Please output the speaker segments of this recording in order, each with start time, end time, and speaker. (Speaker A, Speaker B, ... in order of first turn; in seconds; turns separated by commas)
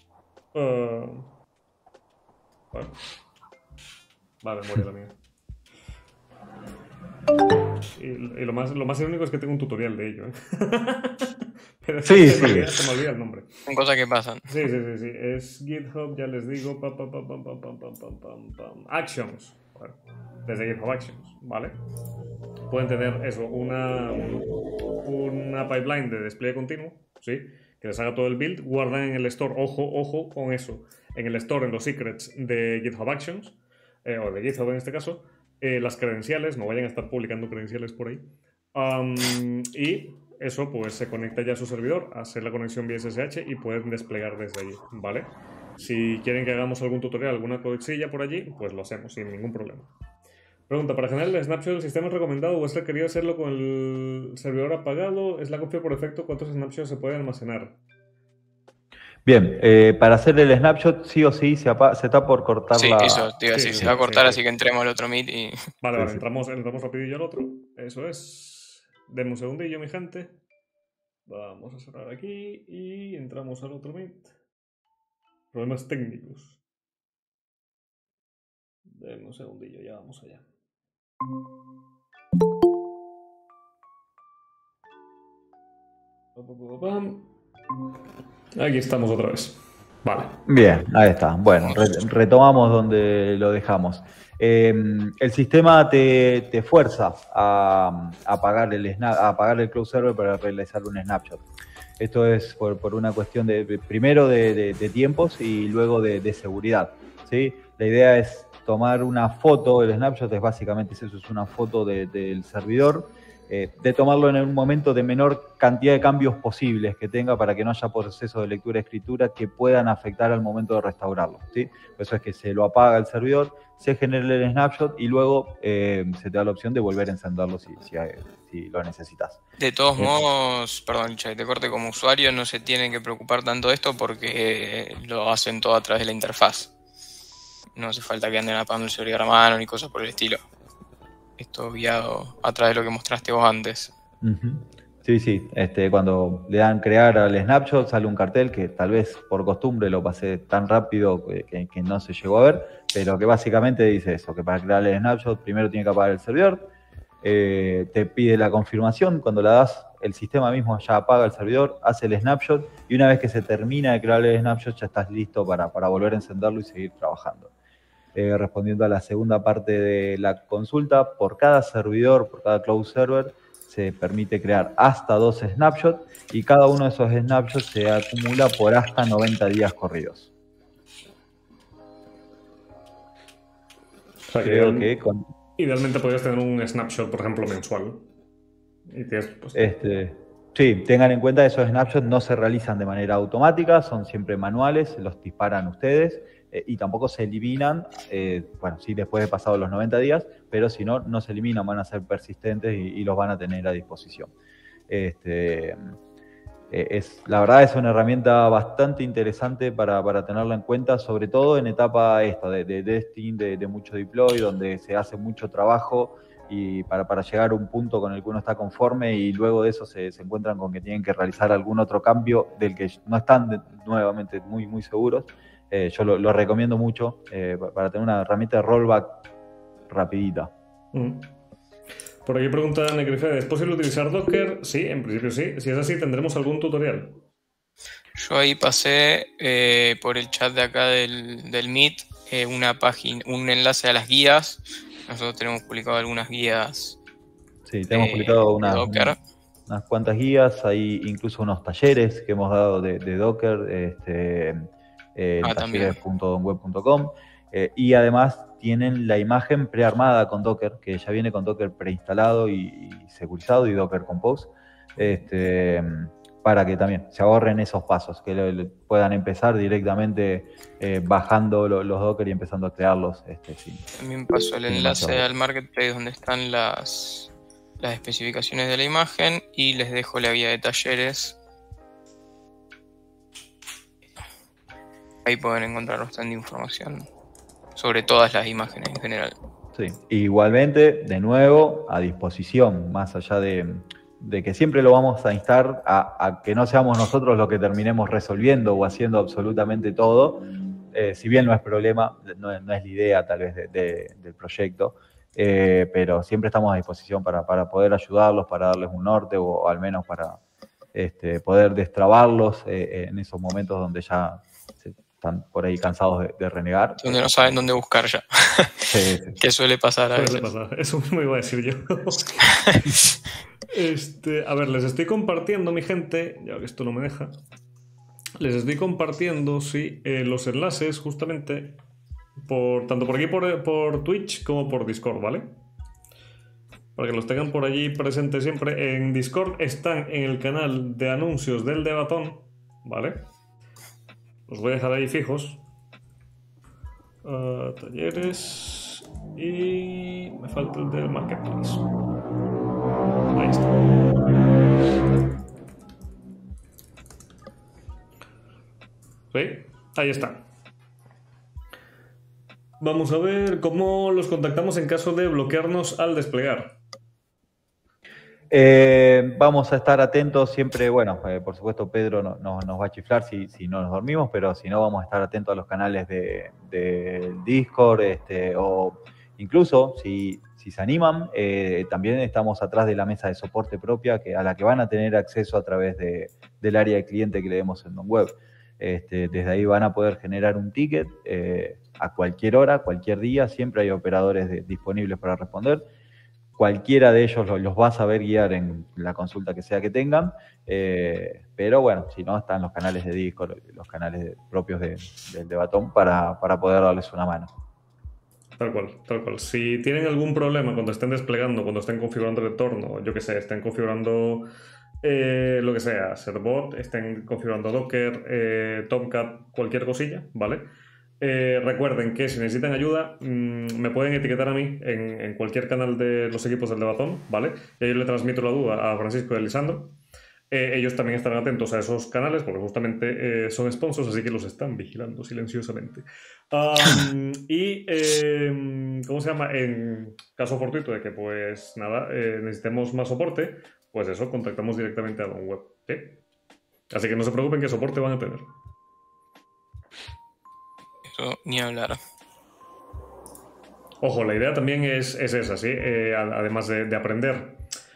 Speaker A: 0.5-1.3, Speaker A: 4.4-5.2, Speaker A: 8.0-13.6, Speaker B: 12.1-12.7, Speaker C: 13.7-14.5, Speaker A: 14.5-21.8, Speaker A: 22.7-24.5, Speaker A: 25.0-49.9, Speaker A: 50.7-57.8, Speaker B: 59.2-63.9, Speaker C: 62.7-65.6, Speaker A: 63.5-64.4, Speaker A: 65.8-70.4, Speaker B: 66.0-66.2, Speaker A: 71.3-74.3, Speaker A: 75.5-76.6, Speaker A: 79.0-80.5, Speaker A: 86.4-87.3, Speaker A: 88.5-90.4, Speaker B: 90.5-101.4, Speaker B: 102.0-129.4, Speaker C: 129.6-136.7, Speaker C: 137.8-140.4, Speaker C: 141.4-143.9, Speaker B: 144.2-156.7, Speaker B: 157.2-167.5, Speaker B: 168.2-180.3, Speaker A: 184.3-184.9, Speaker B: 184.4-185.2, Speaker A: 185.6-188.1, Speaker A: 188.9-189.7, Speaker B: 189.6-204.3, Speaker B: 204.9-205.8, Speaker B: 206.7-229.3, Speaker B: 229.9-230.5, Speaker A: 230.9-231.3, Speaker A: 232.2-237.2, Speaker C: 238.2-247.0, Speaker B: 247.7-249.2, Speaker C: 247.9-249.2, Speaker B: 249.7-273.9, Speaker C: 255.4-256.0, Speaker C: 274.0-281.4, Speaker B: 274.7-275.3, Speaker C: 285.3-287.1, Speaker C: 287.8-289.4, Speaker B: 289.7-310.4, Speaker B: 310.9-317.6, Speaker C: 317.0-320.5, Speaker B: 318.9-319.4, Speaker A: 320.1-322.5, Speaker A: 323.7-327.4, Speaker A: 328.4-331.8, Speaker A: 332.4-335.6, Speaker A: 337.0-343.3, Speaker A: 344.5-345.6, Speaker A: 347.2-351.9, Speaker A: 353.3-353.8, Speaker A: 359.3-360.4, Speaker A: 362.8-366.8, Speaker B: 368.5-395.9, Speaker B: 396.6-407.5, Speaker A: 408.6-414.5, Speaker A: 415.0-420.7, Speaker A: 421.2-430.0, Speaker A: 430.5-446.2, Speaker A: 446.9-448.5, Speaker C: 451.1-452.0, Speaker A: 454.0-457.6